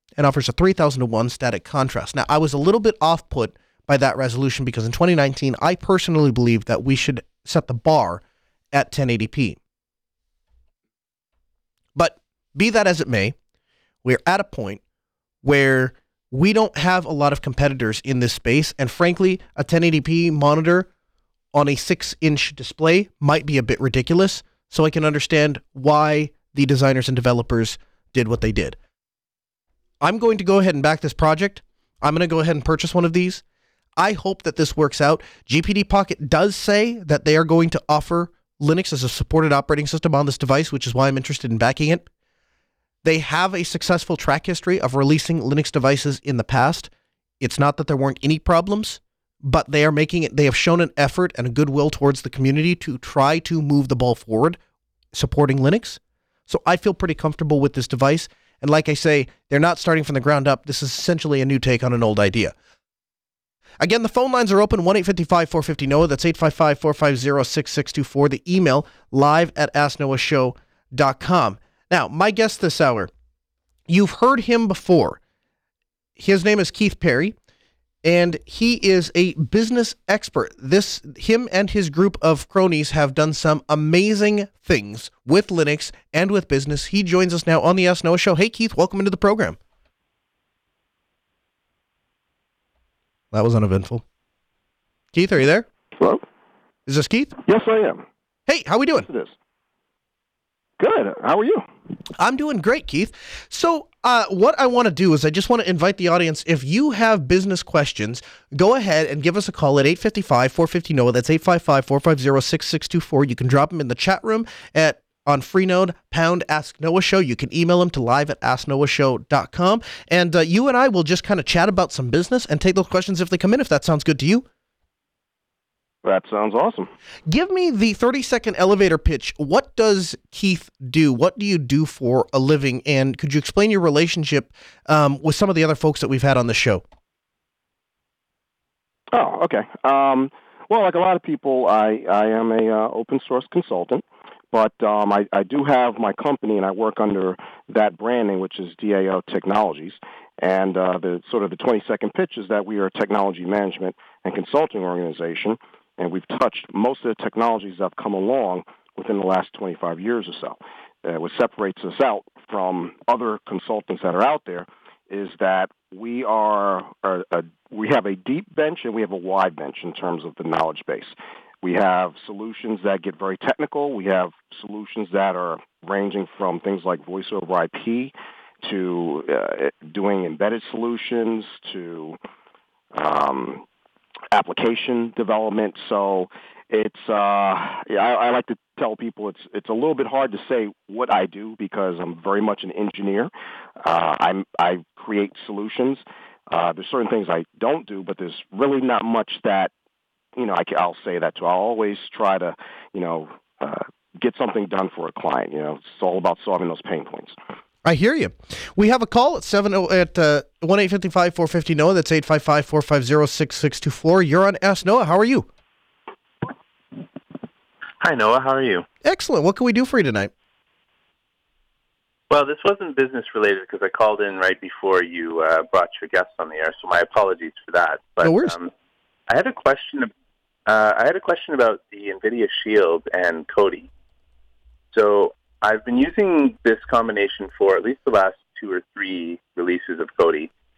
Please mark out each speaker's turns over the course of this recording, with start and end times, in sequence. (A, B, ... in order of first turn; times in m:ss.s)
0:00.2-0:09.6 A
0:11.9-0:13.3 A
0:14.0-0:14.8 A
0:15.4-0:20.9 A
0:21.5-0:28.8 A
0:30.0-0:33.4 A
0:34.0-0:42.0 A
0:43.0-0:54.6 A
0:55.1-1:02.5 A
1:03.8-1:13.1 A
1:13.9-1:15.2 A
1:16.2-1:17.3 A
1:18.0-1:29.6 A
1:33.3-1:34.0 A
1:35.1-1:35.6 A
1:36.0-1:36.2 B
1:36.9-1:37.4 A
1:37.4-1:38.0 B
1:38.5-1:39.1 A
1:39.1-1:39.3 B
1:40.8-1:41.6 B
1:42.2-2:04.4 A
2:06.0-2:06.9 B
2:07.3-2:16.8 A
2:19.1-3:02.2 B
3:02.9-3:03.6 B
3:04.3-3:19.7 B
3:20.4-3:27.3 B
3:27.8-3:35.5 A
3:38.0-3:38.8 C
3:39.0-3:40.3 A
3:42.3-3:48.7 C
3:48.2-3:48.5 A
3:49.3-3:50.1 C
3:50.6-3:53.9 C
3:54.9-4:00.5 C